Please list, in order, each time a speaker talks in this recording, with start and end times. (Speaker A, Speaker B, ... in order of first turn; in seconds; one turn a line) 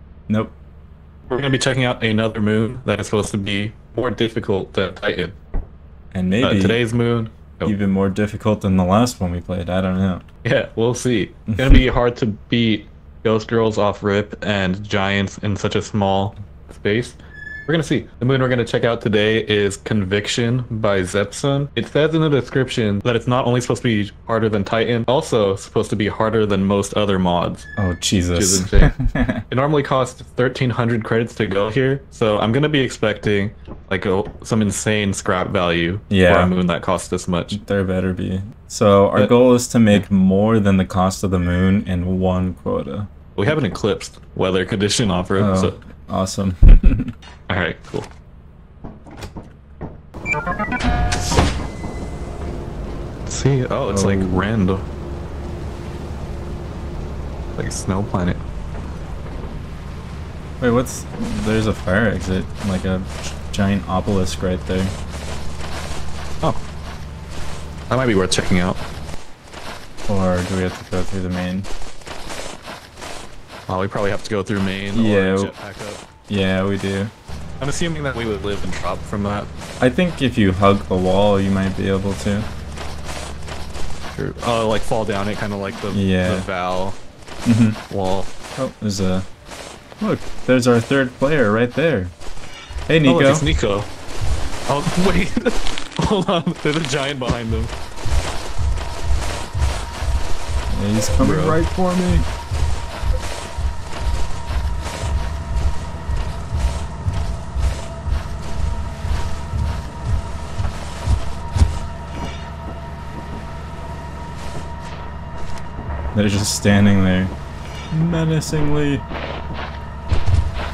Speaker A: 0.3-0.5
Speaker B: 1.3-5.3
Speaker A: 6.1-6.8
Speaker B: 6.4-7.7
Speaker A: 7.6-10.2
Speaker B: 10.4-17.1
Speaker A: 11.5-11.8
Speaker B: 17.7-27.7
Speaker A: 27.8-29.4
Speaker B: 28.3-28.9
Speaker B: 29.5-37.6
Speaker A: 36.1-36.5
Speaker A: 37.5-43.1
Speaker B: 43.4-45.8
Speaker A: 45.3-47.1
Speaker B: 47.5-48.1
Speaker B: 53.2-54.8
Speaker A: 53.9-54.4
Speaker B: 57.6-58.4
Speaker A: 60.6-64.9
Speaker B: 67.9-68.8
Speaker A: 70.1-71.7
Speaker B: 73.7-76.0
Speaker A: 74.9-75.5
Speaker A: 76.3-77.1
Speaker B: 77.6-79.5
Speaker A: 79.8-82.5
Speaker B: 84.1-87.0
Speaker A: 85.9-86.5
Speaker A: 87.5-87.8
Speaker B: 87.9-88.3
Speaker A: 88.6-89.3
Speaker A: 90.0-92.1
Speaker A: 92.9-93.4
Speaker B: 93.0-93.9
Speaker B: 94.7-97.7
Speaker A: 100.7-102.3
Speaker B: 101.2-101.6
Speaker A: 116.1-117.3
Speaker A: 117.9-119.0